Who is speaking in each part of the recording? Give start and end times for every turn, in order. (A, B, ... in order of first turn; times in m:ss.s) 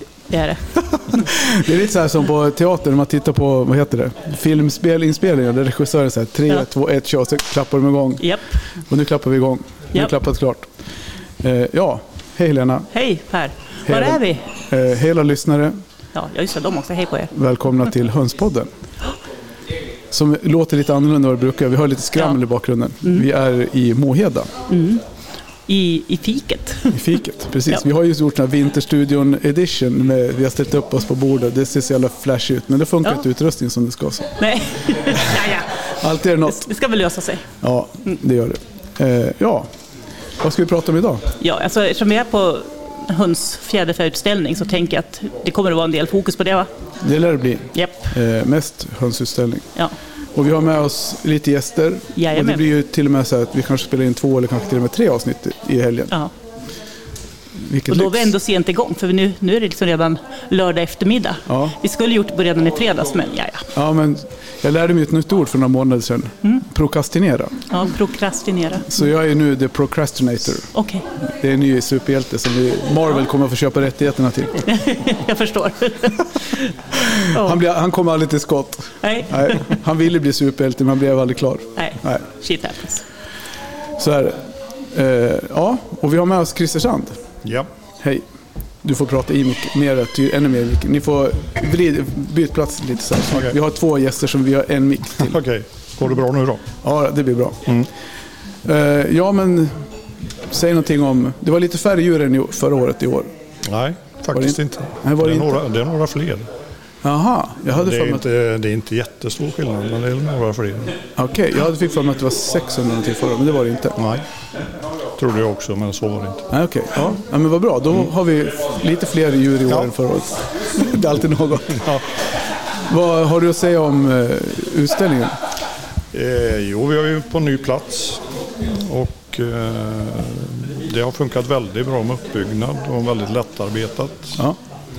0:00.3-0:00.6 A
0:01.2-0:08.3 B
0:08.9-0:10.7 B
0:11.4-0:12.9 B
0:12.9-0:14.4 A
0:13.8-0:15.8 B
0:16.1-0:17.3 A
0:17.3-0:18.7 B
0:20.1-0:24.5 B
0:24.7-0:25.0 A
0:25.7-0:27.0 A
0:26.9-0:34.3 B
0:34.4-0:35.7 A
0:35.1-0:35.4 B
0:36.0-0:36.7 B
0:36.4-0:37.4 A
0:37.6-0:39.7 B
0:40.4-0:41.2 B
0:41.4-0:46.7 A
0:47.0-0:49.7 B
0:47.7-0:48.1 A
0:50.3-0:56.2 B
0:52.2-0:52.6 A
0:57.6-0:58.3 B
0:57.9-1:03.6 A
1:01.5-1:01.7 B
1:03.7-1:07.6 B
1:07.7-1:08.9 A
1:08.9-1:14.6 B
1:10.7-1:11.0 A
1:14.6-1:16.6 A
1:17.2-1:17.6 A
1:17.3-1:22.3 B
1:19.0-1:19.6 A
1:21.8-1:23.0 A
1:24.0-1:27.2 B
1:27.4-1:27.7 C
1:28.8-1:35.4 B
1:35.2-1:36.7 C
1:36.8-1:37.7 B
1:38.6-1:39.9 B
1:40.4-1:43.3 B
1:43.6-1:46.5 C
1:44.3-1:45.6 B
1:47.0-1:48.2 B
1:47.7-1:51.0 C
1:51.2-1:54.0 B
1:54.0-1:54.2 C
1:55.2-1:56.5 C
1:56.5-2:02.0 B
2:02.8-2:05.4 B
2:06.1-2:14.4 C